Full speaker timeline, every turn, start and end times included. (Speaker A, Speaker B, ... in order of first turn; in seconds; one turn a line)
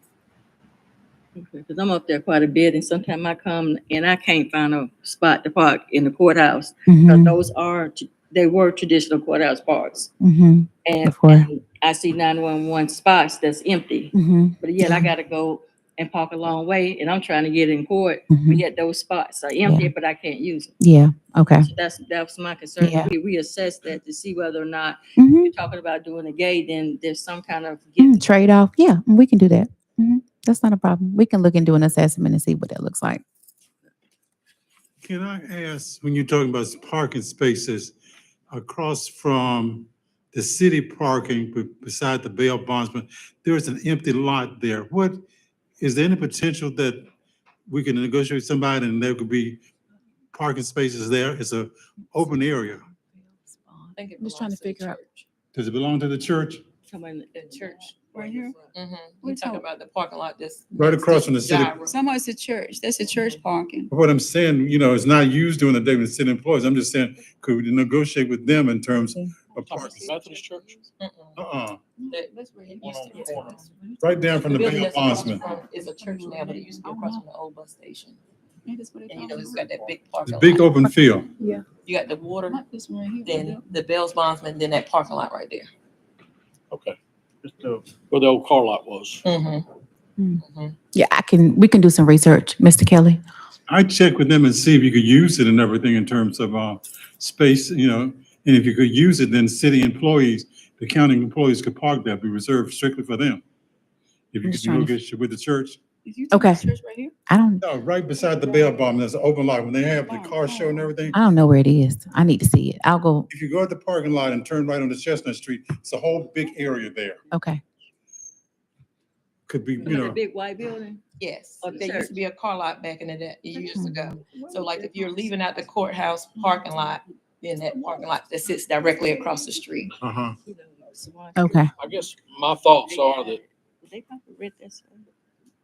Speaker A: 1.4-10.1
Speaker B: 6.9-7.3
Speaker B: 10.2-11.5
Speaker A: 10.8-20.8
Speaker B: 14.1-15.1
Speaker B: 18.3-18.6
Speaker B: 19.6-19.9
Speaker B: 20.8-21.7
Speaker A: 21.6-28.4
Speaker B: 22.8-23.1
Speaker B: 25.2-25.5
Speaker B: 28.0-33.2
Speaker C: 35.0-38.0
Speaker C: 38.5-45.2
Speaker C: 45.8-47.1
Speaker C: 47.7-49.6
Speaker C: 50.3-52.8
Speaker B: 52.2-55.0
Speaker D: 54.0-55.2
Speaker C: 55.5-56.6
Speaker A: 56.9-57.9
Speaker D: 57.4-62.0
Speaker E: 58.1-58.5
Speaker E: 59.2-59.6
Speaker C: 60.7-61.8
Speaker E: 61.9-63.9
Speaker C: 63.9-70.0
Speaker F: 69.6-70.9
Speaker E: 69.8-70.2
Speaker D: 71.0-71.4
Speaker C: 71.4-71.8
Speaker E: 72.0-77.2
Speaker D: 72.1-73.7
Speaker C: 72.8-75.5
Speaker D: 74.5-78.2
Speaker E: 78.7-79.7
Speaker D: 79.1-80.8
Speaker C: 80.2-81.3
Speaker E: 81.4-81.7
Speaker D: 81.8-82.6
Speaker E: 82.5-83.6
Speaker D: 83.2-85.7
Speaker F: 86.7-89.2
Speaker D: 89.2-89.7
Speaker B: 90.2-90.4
Speaker D: 90.4-90.8
Speaker B: 90.9-93.2
Speaker C: 93.7-103.4
Speaker C: 104.3-105.8
Speaker B: 104.4-105.0
Speaker E: 106.1-107.1
Speaker B: 106.3-106.7
Speaker B: 107.3-107.6
Speaker C: 107.6-111.2
Speaker E: 110.0-111.0
Speaker B: 111.1-113.3
Speaker C: 113.3-117.2
Speaker B: 117.3-117.6
Speaker C: 119.5-120.2
Speaker A: 119.8-121.0
Speaker D: 121.2-129.9
Speaker A: 121.6-122.2
Speaker B: 123.7-124.0
Speaker E: 124.4-125.0
Speaker C: 130.0-130.3
Speaker A: 130.4-132.0
Speaker B: 131.4-131.7
Speaker F: 131.8-133.4
Speaker A: 132.8-135.1